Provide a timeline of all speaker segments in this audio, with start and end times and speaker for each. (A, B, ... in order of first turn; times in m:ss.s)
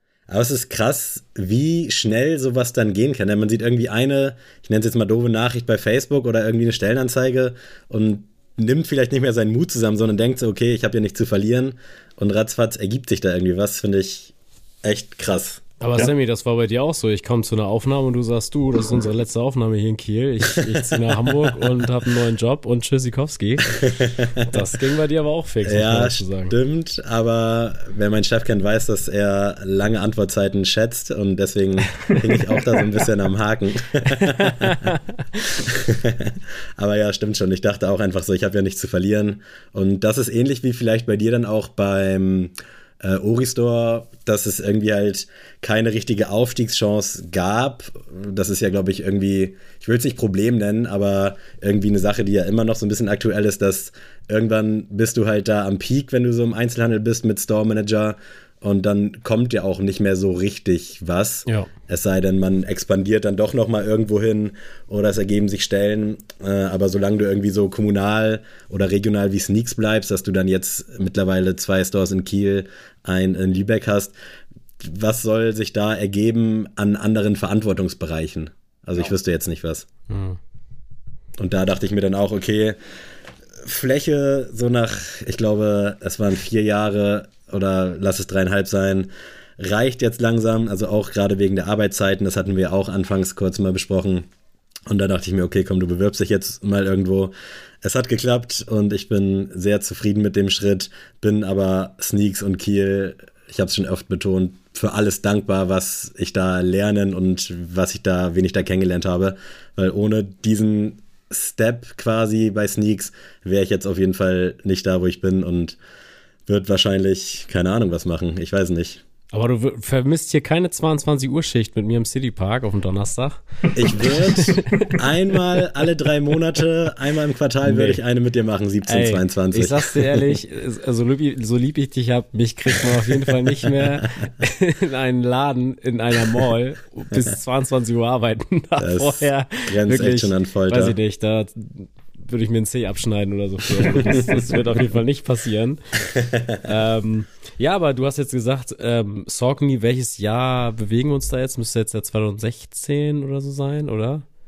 0:00.3-0:15.6 A
0:15.8-0:23.7 B
0:20.6-0:21.6 A
0:23.6-0:24.6 A
0:24.4-0:26.5 B
0:25.6-0:34.9 A
0:34.0-0:35.4 B
0:35.6-1:14.1 A
1:14.8-1:19.9 A
1:20.1-1:20.4 B
1:21.4-1:22.8 A
1:23.6-1:34.3 A
1:34.9-1:55.8 A
1:56.5-1:59.0 A
1:59.3-2:04.9 B
2:03.7-2:10.3 A
2:07.6-2:08.0 B
2:08.9-2:25.8 B
2:18.8-2:21.0 A
2:23.8-2:24.4 A
2:26.1-2:26.6 A
2:26.6-2:34.2 B